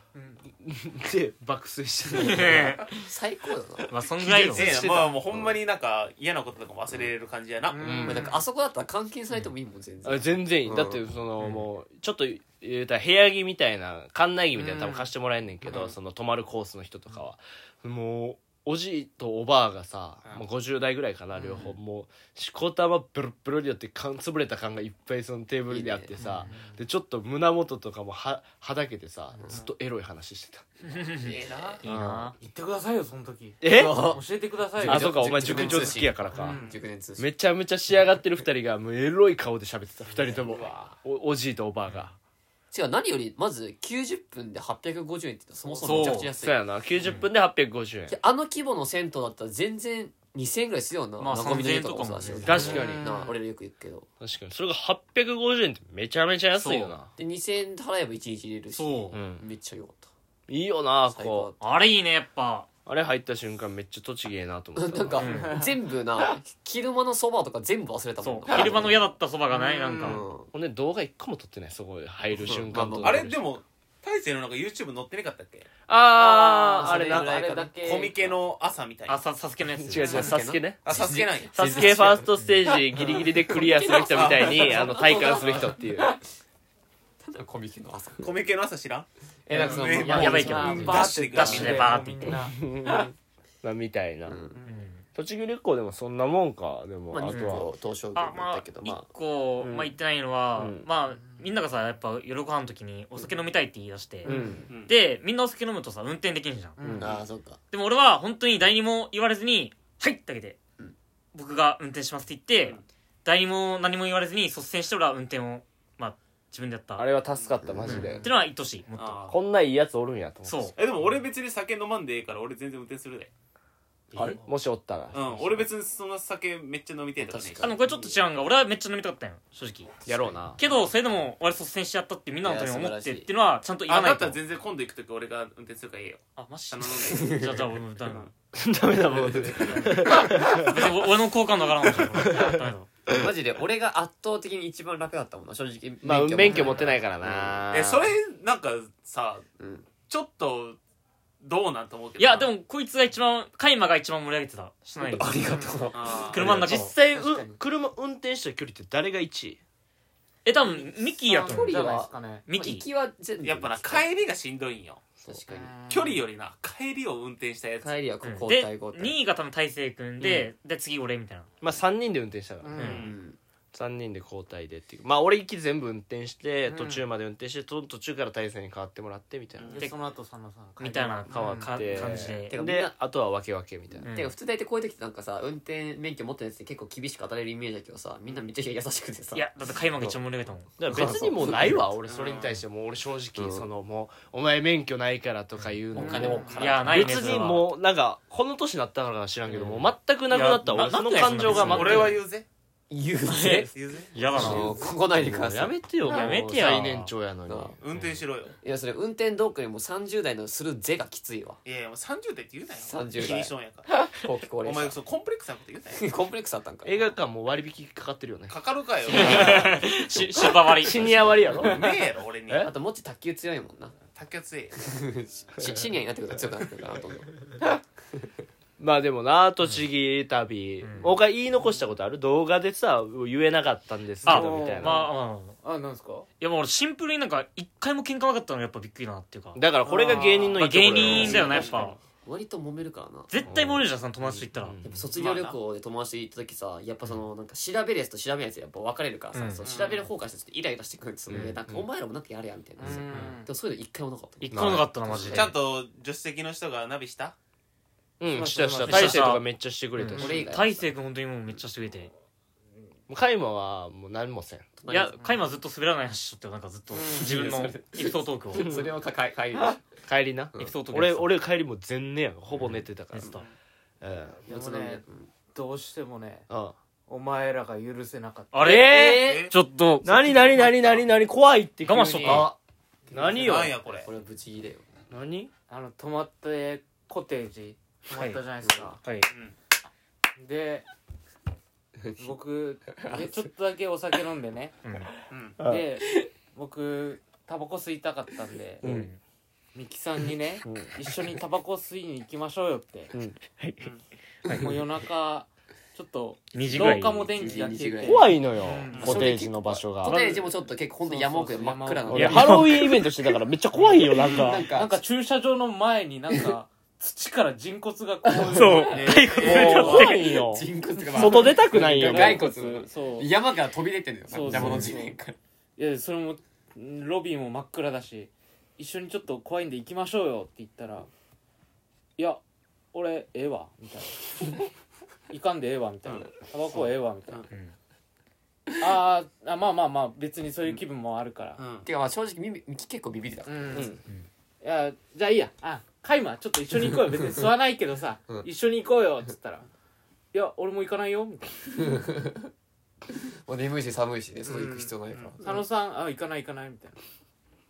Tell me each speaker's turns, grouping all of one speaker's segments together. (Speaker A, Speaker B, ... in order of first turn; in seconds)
Speaker A: 0.1-0.4, 7.7-8.4, 14.5-15.1, 26.5-26.8, 32.4-36.6, 52.6-53.4, 65.2-65.8, 69.5-70.2, 76.2-78.2, 80.1-80.3, 85.3-85.6, 89.6-92.6, 94.6-94.8, 106.8-107.1, 146.4-146.8, 157.0-157.6, 160.6-162.4, 165.5-166.2, 172.6-173.0, 176.7-177.0, 179.7-182.2, 196.0-196.6, 234.2-236.3, 239.8-240.6, 252.8-253.5, 258.3-259.3, 267.0-267.3, 274.4-276.5, 277.1-278.7, 285.7-289.0, 290.4-290.9, 292.1-294.8, 295.6-298.8, 299.7-303.1, 304.5-309.2, 311.0-312.7, 313.8-320.1, 321.1-323.3, 324.3-325.2, 325.8-331.1, 332.2-332.4, 332.9-334.6, 335.3-337.5, 338.8-341.6, 343.4-343.9, 344.6-349.6, 350.3-352.0, 354.4-357.0
Speaker B: 0.5-2.9, 4.2-5.1, 7.8-8.3, 10.0-30.7, 31.8-32.3, 33.6-34.2, 34.8-36.6, 37.2-42.1, 46.4-48.2, 52.4-53.2, 54.2-57.1, 59.1-59.4, 60.5-61.5, 62.9-65.3, 70.5-73.4, 75.9-77.4, 79.8-81.0, 81.5-86.1, 92.3-94.4, 95.1-97.7, 99.6-99.9, 100.6-100.8, 104.2-104.6, 106.8-107.1, 117.0-118.3, 119.3-120.7, 124.2-125.7, 130.1-130.6, 138.5-140.9, 141.9-143.3, 146.0-148.1, 156.3-159.6, 171.6-173.0, 173.7-179.8, 181.3-184.1, 190.8-202.2, 204.3-207.8, 216.8-218.5, 219.1-221.9, 228.8-235.1, 239.5-241.7, 243.4-245.1, 251.3-251.8, 254.5-254.9, 258.2-260.5, 263.1-264.7, 270.1-273.4, 274.0-274.4, 276.5-276.7, 278.6-279.5, 280.0-282.5, 283.1-283.8, 285.1-285.5, 295.6-295.9, 298.8-299.1, 300.6-301.3, 303.1-303.9, 308.0-310.2, 312.1-314.7, 318.5-322.5, 324.5-325.0, 343.7-344.0
Speaker C: 2.1-2.9, 3.9-4.8, 11.4-11.7, 26.2-26.5, 30.9-32.3, 45.8-46.4, 47.0-47.2, 51.2-52.9, 56.5-56.9, 58.7-59.2, 61.6-62.7, 65.2-65.6, 68.2-70.2, 79.1-80.4, 82.3-82.6, 90.1-92.4, 94.7-95.0, 97.3-106.8, 107.7-110.6, 111.3-117.1, 117.8-119.3, 120.4-120.7, 127.6-129.9, 130.6-134.4, 136.3-138.3, 140.4-142.9, 152.2-155.7, 156.3-156.9, 160.4-161.9, 162.5-162.8, 168.2-171.5, 172.8-173.0, 180.8-182.5, 184.0-184.3, 189.3-191.7, 196.6-197.7, 200.3-202.2, 203.3-204.8, 206.0-207.1, 219.1-221.6, 230.8-231.1, 234.2-235.6, 236.4-242.0, 243.3-244.8, 249.3-249.7, 254.4-255.5, 258.8-262.1, 264.9-268.8, 270.6-271.4, 272.6-273.4, 278.5-281.1, 281.8-282.5, 288.1-288.4, 289.0-289.3, 294.8-295.1, 298.8-299.2, 306.5-307.4, 310.1-310.4, 312.3-312.7, 319.3-320.2, 337.5-337.7
Speaker D: 3.0-3.9, 8.0-11.0, 25.7-26.1, 31.1-31.8, 33.6-34.2, 34.8-37.2, 40.3-40.9, 42.7-46.6, 48.1-54.1, 57.2-60.1, 61.1-61.6, 64.7-69.0, 70.0-70.5, 72.3-73.3, 76.2-78.1, 80.0-82.3, 83.0-86.2, 87.2-88.3, 89.5-91.1, 94.3-94.6, 97.1-99.1, 104.2-104.7, 106.9-107.6, 117.6-118.3, 127.2-128.2, 130.1-130.3, 132.4-133.3, 137.0-137.5, 143.1-147.6, 149.6-149.9, 155.0-156.3, 161.4-164.1, 165.2-165.7, 167.8-169.2, 172.8-173.4, 182.5-182.9, 183.9-189.5, 190.9-191.8, 193.4-193.7, 195.9-196.9, 199.5-199.9, 202.9-203.7, 204.3-206.3, 207.5-207.8, 208.6-211.6, 212.8-215.0, 215.9-216.9, 222.6-223.9, 224.8-227.8, 241.0-243.3, 244.8-255.5, 260.1-260.9, 264.8-265.3, 267.0-269.8, 274.4-275.3, 282.2-282.6, 283.2-284.8, 288.6-288.9, 293.0-293.4, 306.8-308.3, 309.0-312.9, 314.2-315.0, 318.2-318.8, 319.5-325.4, 341.8-343.9, 351.8-352.5, 353.1-355.6
Speaker E: 4.5-8.0, 15.7-15.9, 31.1-31.8, 36.4-36.8, 40.3-40.9, 72.3-75.7, 77.8-79.2, 80.8-82.0, 84.1-84.9, 88.2-92.0, 104.7-104.9, 119.0-119.4, 120.8-123.3, 125.1-127.7, 133.9-138.3, 139.5-139.9, 147.7-149.4, 150.1-150.8, 151.4-152.5, 155.9-156.6, 163.4-165.0, 165.9-168.0, 172.8-173.1, 179.6-179.9, 192.1-192.6, 196.3-196.9, 201.4-202.5, 203.7-204.2, 207.8-208.5, 211.6-213.9, 214.6-216.1, 218.5-219.8, 221.6-222.7, 224.1-224.9, 241.0-241.8, 245.1-245.6, 249.6-250.1, 255.3-257.4, 278.7-279.5, 283.2-284.1, 289.3-289.6, 295.3-295.6, 308.9-309.1, 318.9-320.1, 336.1-336.3, 341.6-341.9